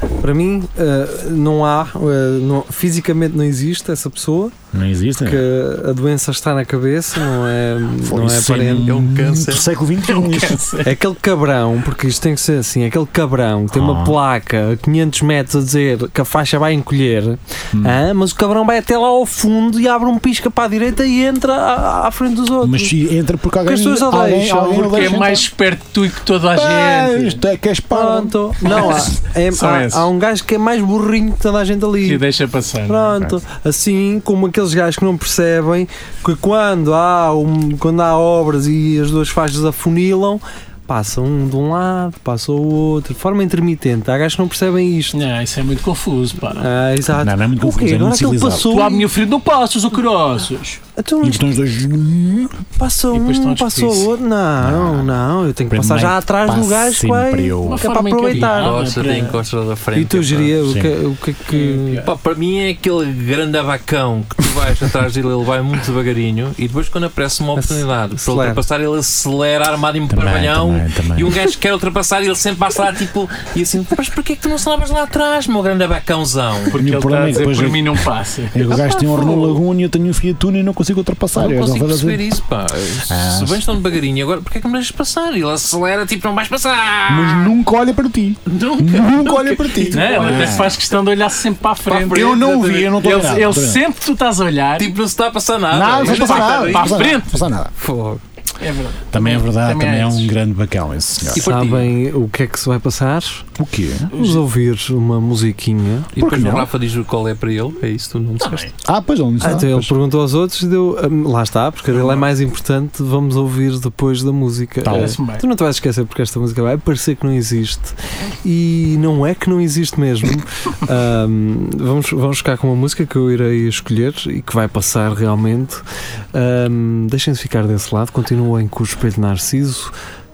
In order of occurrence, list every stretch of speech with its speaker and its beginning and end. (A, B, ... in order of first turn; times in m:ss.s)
0:00.2-0:04.5 A
0:04.7-0:05.4 B
0:05.2-0:08.9 A
0:08.0-0:10.6 B
0:08.8-0:09.7 C
0:10.0-0:10.9 D
0:10.8-0:22.9 A
0:13.7-0:14.2 B
0:17.7-0:18.0 B
0:22.6-0:25.5 B
0:23.6-0:24.9 A
0:24.6-0:27.4 D
0:26.5-0:29.0 B
0:27.9-0:32.2 A
0:28.6-0:30.1 D
0:32.0-0:33.2 D
0:32.9-0:45.2 A
0:45.1-0:46.7 D
0:46.6-0:49.1 A
0:47.2-0:48.9 B
0:48.7-0:50.8 D
0:51.0-0:51.5 A
0:51.2-0:52.7 B
0:52.8-0:58.8 A
0:53.1-0:54.1 D
0:54.6-0:57.9 B
0:57.6-0:59.4 D
0:58.3-1:00.6 C
0:59.9-1:02.0 A
1:00.6-1:00.9 B
1:01.5-1:02.1 D
1:01.9-1:16.8 C
1:07.6-1:08.6 A
1:10.1-1:11.4 B
1:16.7-1:19.5 D
1:16.7-1:22.2 B
1:21.3-1:27.6 C
1:23.0-1:23.6 B
1:27.1-1:30.8 B
1:28.5-1:30.7 C
1:29.9-1:34.9 D
1:31.8-1:33.0 C
1:31.9-1:33.8 B
1:34.8-1:38.2 C
1:35.7-1:37.7 B
1:36.0-1:37.4 D
1:38.6-1:40.3 D
1:39.1-1:41.4 B
1:41.3-1:41.9 C
1:41.3-1:43.5 A
1:43.6-1:44.1 B
1:44.1-1:44.4 D
1:44.1-1:46.1 A
1:46.1-1:46.7 B
1:46.2-1:48.7 C
1:48.4-1:48.7 D
1:48.8-1:49.9 B
1:49.4-2:05.8 A
1:54.8-1:55.2 B
1:54.9-1:55.4 D
2:06.3-2:09.9 A